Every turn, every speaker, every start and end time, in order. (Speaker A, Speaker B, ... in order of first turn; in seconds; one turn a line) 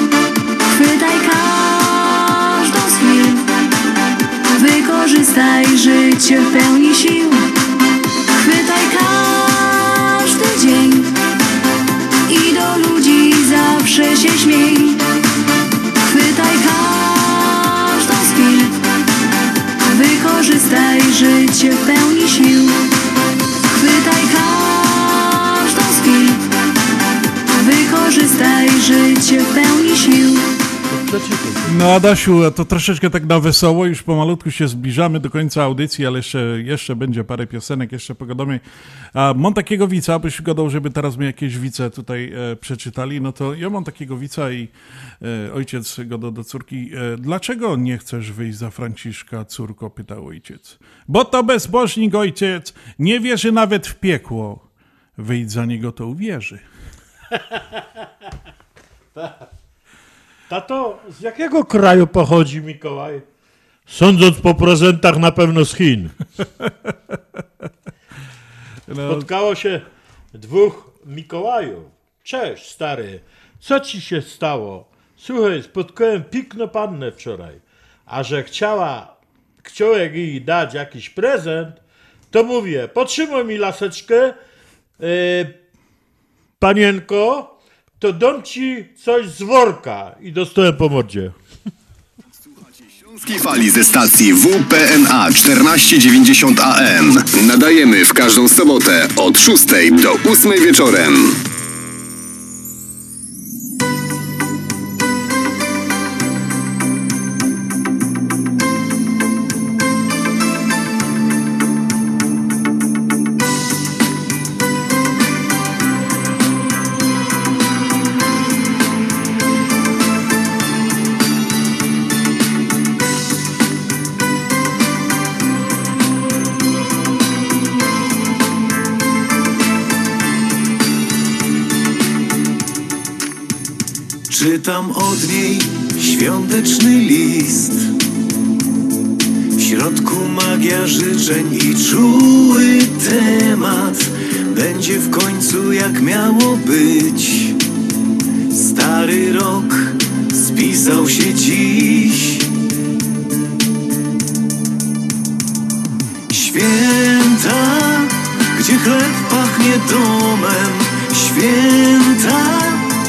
Speaker A: 0.7-3.4
Speaker A: 4.5-7.5
Speaker A: 8.4-11.1
Speaker A: 12.3-15.0
Speaker A: 16.0-18.7
Speaker A: 19.9-22.8
Speaker A: 23.7-26.4
Speaker A: 27.5-30.4
Speaker B: 30.9-31.9
Speaker C: 31.7-38.6
Speaker C: 39.1-54.6
Speaker C: 55.2-56.6
Speaker B: 60.5-63.2
Speaker B: 63.9-66.1
Speaker C: 68.9-69.3
Speaker B: 69.0-69.8
Speaker B: 70.3-81.8
Speaker B: 82.3-84.3
Speaker B: 85.0-85.5
Speaker B: 86.6-91.3
Speaker D: 92.8-101.4
Speaker E: 134.3-137.9
Speaker E: 139.6-147.6
Speaker E: 148.5-152.4
Speaker E: 156.3-162.8